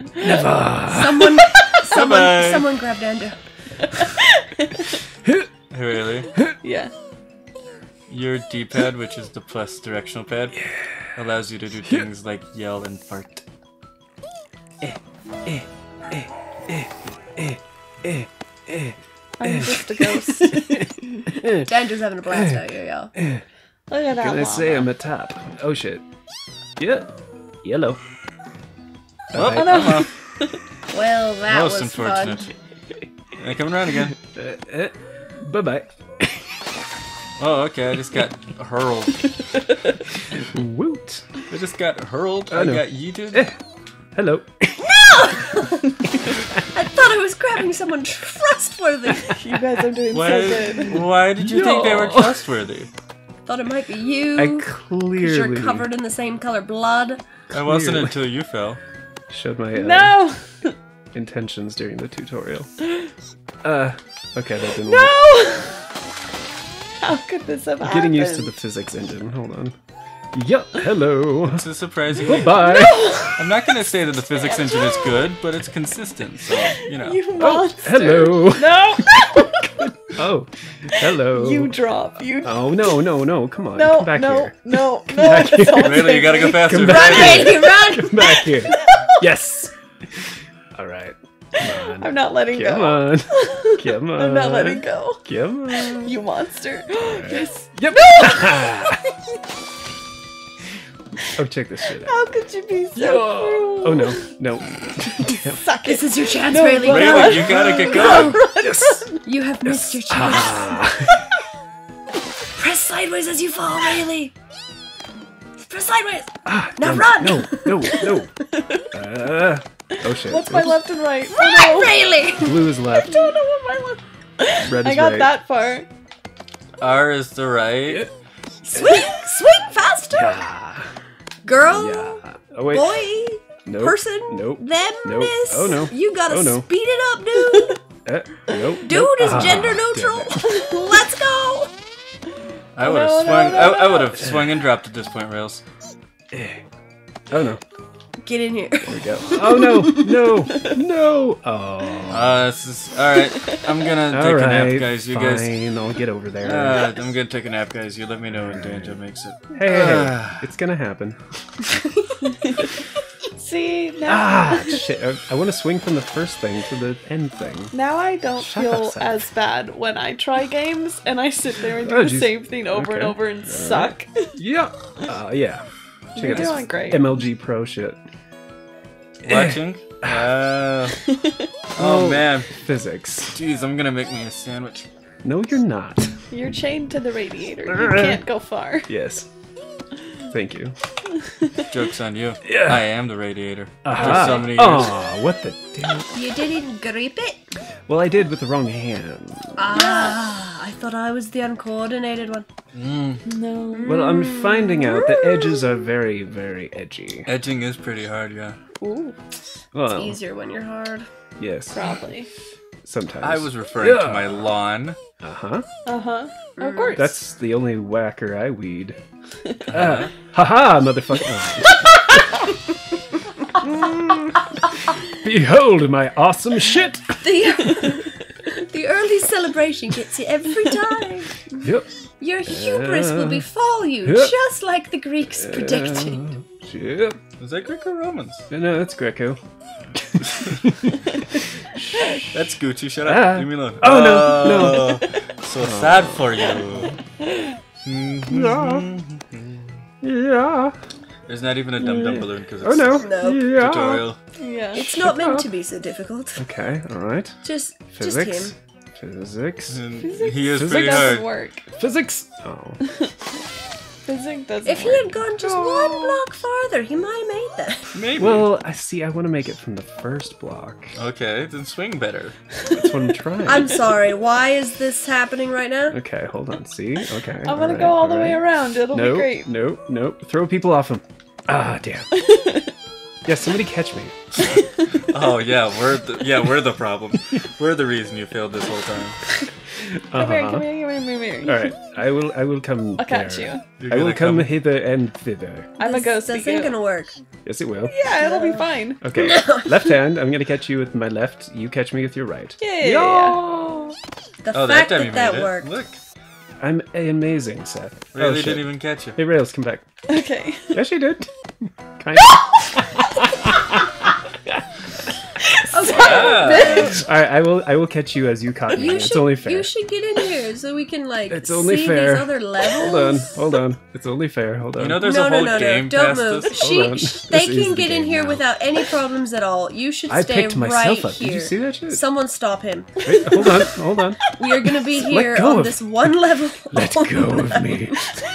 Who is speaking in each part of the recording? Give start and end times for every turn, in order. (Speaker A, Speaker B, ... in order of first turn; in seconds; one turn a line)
Speaker A: 0.2-1.5
Speaker B: 0.8-3.4
Speaker C: 1.9-2.7
Speaker D: 3.9-4.9
Speaker C: 5.7-6.3
Speaker D: 6.6-6.9
Speaker C: 8.1-13.4
Speaker A: 10.7-11.1
Speaker A: 14.8-21.7
Speaker D: 19.4-21.3
Speaker B: 21.6-23.1
Speaker A: 22.3-22.6
Speaker A: 23.2-23.4
Speaker D: 23.9-24.9
Speaker A: 24.2-26.0
Speaker A: 26.8-27.1
Speaker A: 27.6-28.0
Speaker A: 29.3-30.1
Speaker C: 29.3-30.1
Speaker D: 29.5-30.6
Speaker B: 30.9-32.5
Speaker C: 31.5-32.5
Speaker C: 33.4-34.2
Speaker A: 34.3-36.6
Speaker C: 37.4-39.4
Speaker A: 40.4-41.3
Speaker C: 41.5-43.5
Speaker A: 42.5-43.6
Speaker A: 44.1-44.9
Speaker B: 44.9-45.9
Speaker A: 46.2-46.5
Speaker B: 46.6-49.4
Speaker D: 49.3-51.0
Speaker C: 50.1-52.9
Speaker A: 50.9-52.4
Speaker B: 53.5-57.2
Speaker A: 54.4-55.9
Speaker C: 57.5-58.8
Speaker A: 57.5-58.2
Speaker A: 59.3-60.2
Speaker D: 59.8-60.7
Speaker A: 61.1-62.7
Speaker A: 63.6-65.1
Speaker D: 64.8-65.8
Speaker D: 67.0-68.5
Speaker A: 67.8-69.8
Speaker A: 70.3-71.7
Speaker C: 71.5-72.7
Speaker A: 72.2-73.3
Speaker D: 72.5-73.4
Speaker C: 73.4-77.2
Speaker D: 74.5-75.3
Speaker D: 76.6-79.9
Speaker A: 77.4-81.8
Speaker D: 81.1-83.1
Speaker A: 82.4-96.2
Speaker D: 83.8-86.8
Speaker C: 85.7-87.8
Speaker B: 86.7-88.8
Speaker D: 88.7-89.2
Speaker D: 91.8-99.1
Speaker A: 97.1-99.0
Speaker A: 101.3-102.2
Speaker D: 102.0-104.3
Speaker A: 103.0-105.7
Speaker D: 105.2-109.1
Speaker B: 105.8-108.5
Speaker C: 106.8-108.4
Speaker A: 108.6-109.1
Speaker B: 109.2-110.9
Speaker A: 109.7-111.2
Speaker B: 112.5-114.3
Speaker B: 115.6-118.1
Speaker A: 116.5-118.3
Speaker A: 118.9-120.8
Speaker D: 120.1-122.0
Speaker B: 121.3-122.8
Speaker A: 122.4-123.3
Speaker D: 122.9-125.9
Speaker A: 124.7-125.3
Speaker C: 126.8-128.1
Speaker B: 128.7-130.4
Speaker A: 128.7-129.2
Speaker A: 130.1-130.9
Speaker B: 131.4-132.2
Speaker A: 131.7-133.0
Speaker B: 132.7-137.8
Speaker A: 133.7-136.7
Speaker A: 138.1-140.4
Speaker B: 138.8-141.7
Speaker D: 140.4-141.1
Speaker C: 142.8-145.6
Speaker D: 142.8-144.2
Speaker A: 146.3-146.6
Speaker A: 147.3-147.6
Speaker B: 148.3-150.3
Speaker A: 148.9-152.4
Speaker C: 152.1-155.5
Speaker A: 154.1-156.9
Speaker C: 156.4-160.4
Speaker A: 158.4-159.0
Speaker A: 159.5-161.2
Speaker D: 162.4-162.7
Speaker D: 163.3-164.8
Speaker A: 164.1-167.7
Speaker D: 167.7-174.4
Speaker A: 168.4-169.2
Speaker A: 171.8-178.0
Speaker D: 176.2-177.1
Speaker C: 179.2-181.0
Speaker A: 179.2-180.3
Speaker C: 181.8-182.5
Speaker A: 181.8-183.4
Speaker C: 183.3-184.9
Speaker A: 185.2-186.2
Speaker D: 186.3-188.9
Speaker A: 187.7-188.2
Speaker A: 188.9-189.3
Speaker A: 190.3-190.8
Speaker C: 191.7-195.0
Speaker A: 192.4-192.8
Speaker A: 193.8-196.1
Speaker B: 196.1-197.5
Speaker A: 197.9-199.8
Speaker B: 199.6-202.5
Speaker D: 199.7-200.2
Speaker C: 202.7-203.2
Speaker D: 203.3-204.1
Speaker B: 203.7-205.7
Speaker A: 203.8-207.3
Speaker C: 207.3-208.6
Speaker D: 208.8-209.2
Speaker A: 209.7-210.2
Speaker B: 209.9-211.1
Speaker A: 211.4-211.8
Speaker D: 211.7-212.3
Speaker A: 212.8-214.5
Speaker C: 213.2-215.0
Speaker A: 215.2-215.7
Speaker D: 215.9-217.2
Speaker B: 216.6-217.1
Speaker A: 216.9-219.0
Speaker A: 219.7-222.5
Speaker C: 219.7-220.1
Speaker B: 223.6-224.4
Speaker A: 225.1-227.2
Speaker B: 227.2-231.4
Speaker A: 231.6-231.9
Speaker B: 232.2-236.3
Speaker A: 232.5-233.5
Speaker A: 234.0-234.3
Speaker A: 235.4-237.2
Speaker C: 237.4-238.4
Speaker A: 238.5-239.4
Speaker A: 239.9-242.3
Speaker C: 242.3-247.0
Speaker A: 243.0-245.0
Speaker A: 245.6-246.6
Speaker D: 247.2-247.6
Speaker C: 247.8-249.7
Speaker A: 248.3-248.9
Speaker A: 250.0-250.8
Speaker C: 251.3-254.2
Speaker A: 251.8-254.1
Speaker B: 253.0-253.4
Speaker D: 254.4-254.8
Speaker A: 254.8-255.5
Speaker B: 254.8-256.4
Speaker A: 256.4-257.4
Speaker B: 257.4-258.5
Speaker A: 257.9-259.8
Speaker C: 259.7-261.3
Speaker D: 260.0-261.6
Speaker A: 260.6-261.1
Speaker A: 261.8-262.8
Speaker D: 264.1-265.1
Speaker B: 264.6-267.9
Speaker A: 265.4-266.2
Speaker C: 267.9-268.5
Speaker A: 268.2-270.9
Speaker C: 270.9-272.4
Speaker A: 272.7-273.9
Speaker B: 273.4-276.0
Speaker A: 275.9-282.1
Speaker D: 277.4-279.5
Speaker D: 282.1-282.7
Speaker A: 283.3-284.1
Speaker C: 285.1-289.2
Speaker A: 289.8-290.7
Speaker D: 290.1-291.8
Speaker A: 291.4-295.7
Speaker D: 293.0-293.6
Speaker C: 293.8-294.6
Speaker D: 295.8-296.8
Speaker B: 295.8-297.1
Speaker A: 297.4-297.9
Speaker D: 297.9-299.0
Speaker B: 298.2-299.9
Speaker A: 299.0-304.0
Speaker D: 302.6-303.4
Speaker B: 304.4-305.8
Speaker C: 304.5-306.0
Speaker A: 306.6-309.9
Speaker C: 308.1-309.2
Speaker D: 310.1-310.8
Speaker A: 310.7-313.8
Speaker B: 315.7-317.1
Speaker D: 315.8-316.6
Speaker A: 315.8-319.7
Speaker C: 315.9-317.0
Speaker B: 318.7-323.4
Speaker A: 321.3-325.1
Speaker C: 324.8-326.6
Speaker B: 325.0-333.5
Speaker A: 326.6-328.4
Speaker A: 330.1-332.0
Speaker A: 333.0-334.2
Speaker D: 333.1-333.8
Speaker B: 334.3-338.0
Speaker A: 334.9-336.1
Speaker A: 336.7-338.0